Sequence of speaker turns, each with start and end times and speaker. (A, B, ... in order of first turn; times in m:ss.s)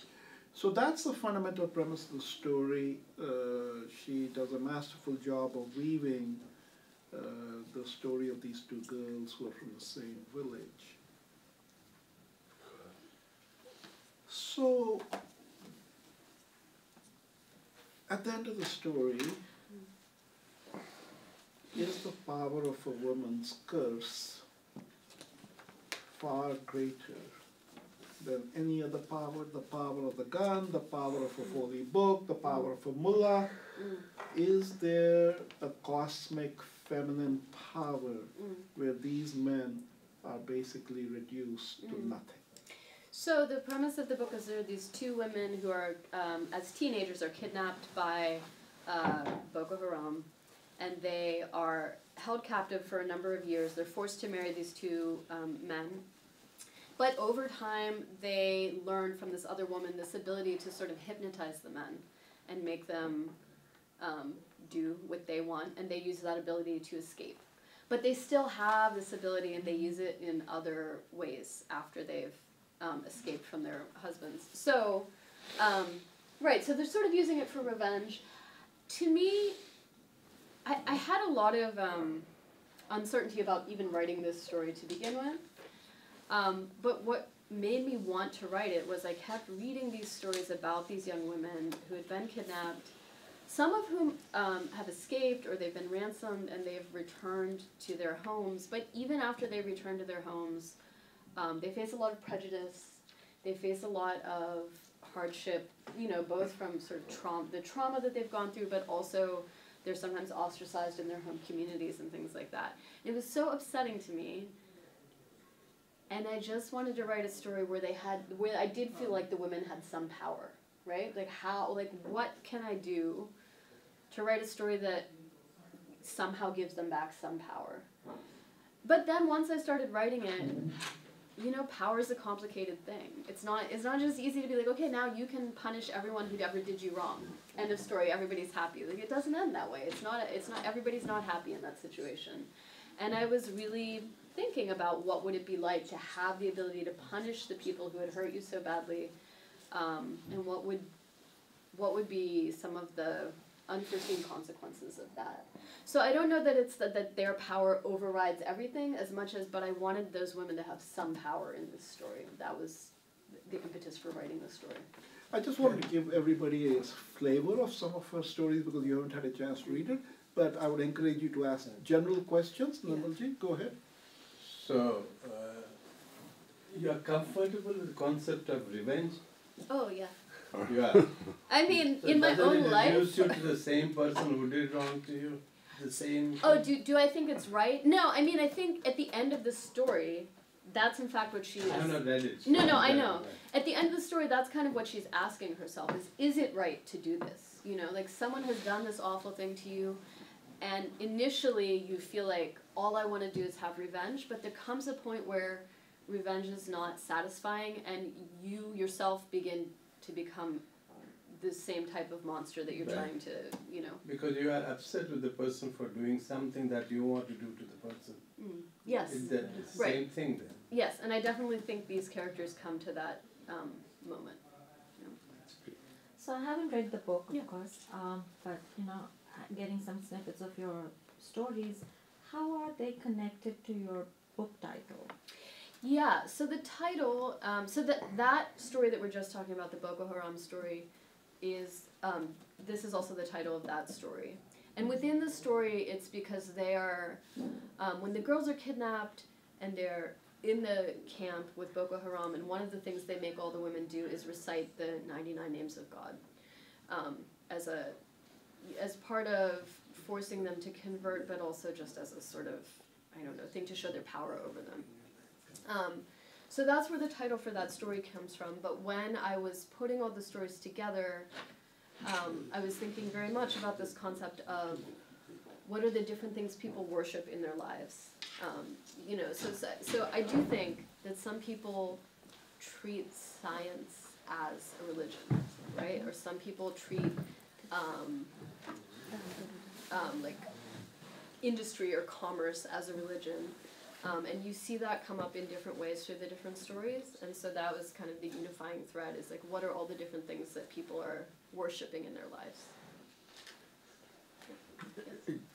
0:00.5-0:06.4 A
0:07.1-0:11.0 A
0:14.3-0:15.1 A
0:18.1-0:19.4 A
0:21.7-0:24.4 A
0:26.1-0:27.3 A
0:28.2-0:33.5 A
0:33.8-0:34.0 B
0:34.3-0:42.4 A
0:41.8-0:42.2 B
0:43.1-0:56.0 B
0:57.0-1:03.4 B
1:04.0-1:18.2 B
1:18.9-1:19.6 B
1:20.6-1:22.3 B
1:22.9-1:25.4 B
1:26.3-1:32.9 B
1:33.5-1:40.8 B
1:41.4-1:54.5 B
1:56.1-2:03.3 B
2:04.1-2:05.1 B
2:06.0-2:07.9 B
2:08.8-2:10.7 B
2:11.4-2:29.1 B
2:29.7-2:30.9 B
2:31.7-2:44.9 B
2:45.3-2:53.7 A
2:54.4-2:55.8 C
2:56.7-2:59.2 C
2:59.7-3:00.1 B
3:00.6-3:01.3 C
3:01.5-3:03.4 B
3:02.0-3:06.6 C
3:06.4-3:20.0 B
3:11.6-3:13.4 C
3:20.6-3:30.6 B
3:31.3-3:34.0 B
3:34.0-3:38.2 C
3:38.4-3:40.1 B
3:39.0-3:40.6 C
3:40.7-3:44.4 B
3:46.2-3:55.1 D
3:55.8-4:00.9 B
4:01.4-4:07.2 B
4:07.8-4:16.2 B
4:16.9-4:18.0 B
4:18.6-4:24.9 B
4:25.6-4:31.3 B
4:32.0-4:34.9 B
4:35.6-4:42.0 B
4:42.6-4:48.3 B
4:49.1-4:49.8 D
4:49.9-4:50.5 B
4:51.4-5:02.7 B
5:04.5-5:05.2 B